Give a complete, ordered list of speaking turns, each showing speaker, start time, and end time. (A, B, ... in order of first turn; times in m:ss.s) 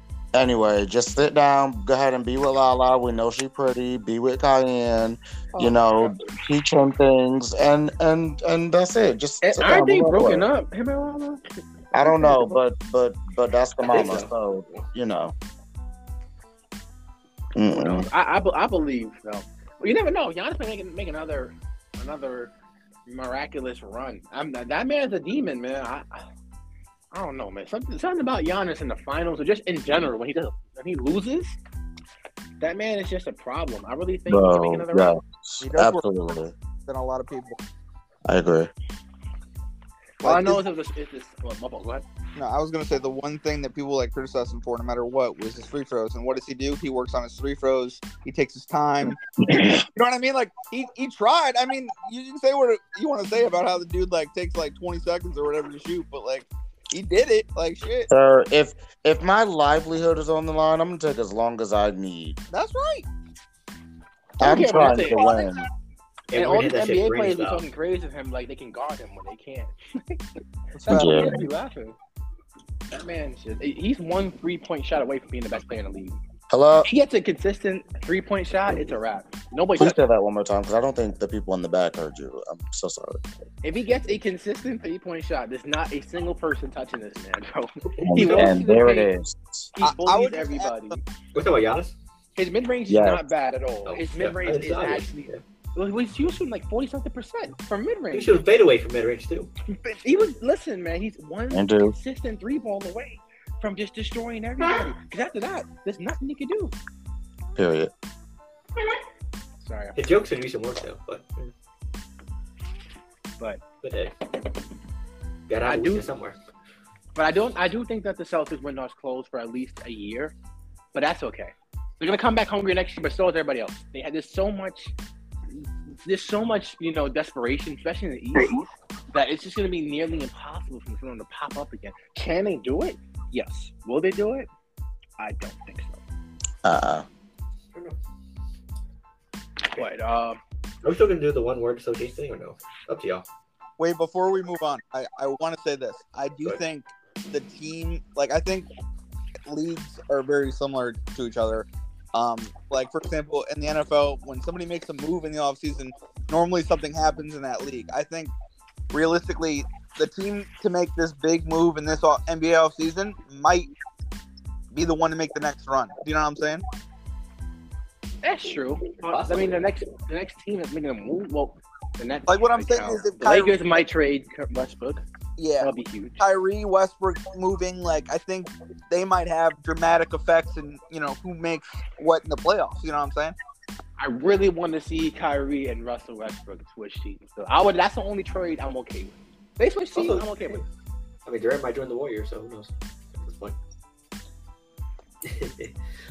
0:00.3-0:10.5 A
0:09.4-0:11.4 B
0:11.9-0:15.3 A
0:12.0-0:12.6 B
0:13.8-0:14.8 C
0:17.5-0:18.1 A
0:17.7-0:22.5 B
0:23.1-0:26.2 B
0:27.1-0:31.6 B
0:32.6-0:35.1 B
0:34.3-0:36.5 A
0:35.6-0:36.0 D
0:36.8-0:37.6 D
0:38.2-0:38.7 A
0:40.2-0:40.6 D
0:40.2-0:42.0 B
0:42.4-0:49.2 D
0:49.5-0:49.8 A
0:49.8-0:58.1 D
0:58.1-1:02.4 A
1:02.5-1:03.1 D
1:04.4-1:05.4 B
1:04.4-1:05.6 A
1:04.8-1:05.4 D
1:06.3-1:07.6 C
1:06.3-1:10.2 B
1:10.7-1:11.3 D
1:10.8-1:12.0 B
1:10.9-1:11.4 A
1:12.9-1:16.2 B
1:16.5-1:16.9 A
1:16.8-1:20.0 B
1:19.8-1:23.2 A
1:23.6-1:29.1 B
1:27.9-1:28.6 C
1:28.0-1:29.7 A
1:29.8-1:31.0 B
1:29.8-1:31.0 D
1:31.3-1:31.9 C
1:32.4-1:38.4 B
1:32.9-1:33.2 A
1:33.8-1:35.4 C
1:38.1-1:39.5 C
1:40.0-1:46.7 B
1:41.5-1:42.0 A
1:47.6-1:47.9 A
1:49.6-1:50.0 B
1:50.0-1:51.5 C
1:53.8-1:54.1 C
1:55.5-1:56.4 C
1:55.6-1:56.1 B
1:57.1-2:00.3 B
2:00.9-2:04.9 B
2:05.5-2:14.5 B
2:15.2-2:16.0 B
2:16.6-2:17.0 A
2:17.7-2:18.0 C
2:19.7-2:20.4 B
2:20.8-2:23.2 C
2:23.8-2:28.7 D
2:29.4-2:38.3 D
2:38.9-2:43.7 D
2:44.7-2:46.6 D
2:48.2-2:55.0 B
2:49.0-2:49.7 C
2:52.3-2:53.6 D
2:55.4-3:03.3 D
2:55.6-2:56.2 B
3:04.0-3:10.6 B
3:09.9-3:10.6 C
3:11.2-3:13.6 C
3:15.2-3:15.7 C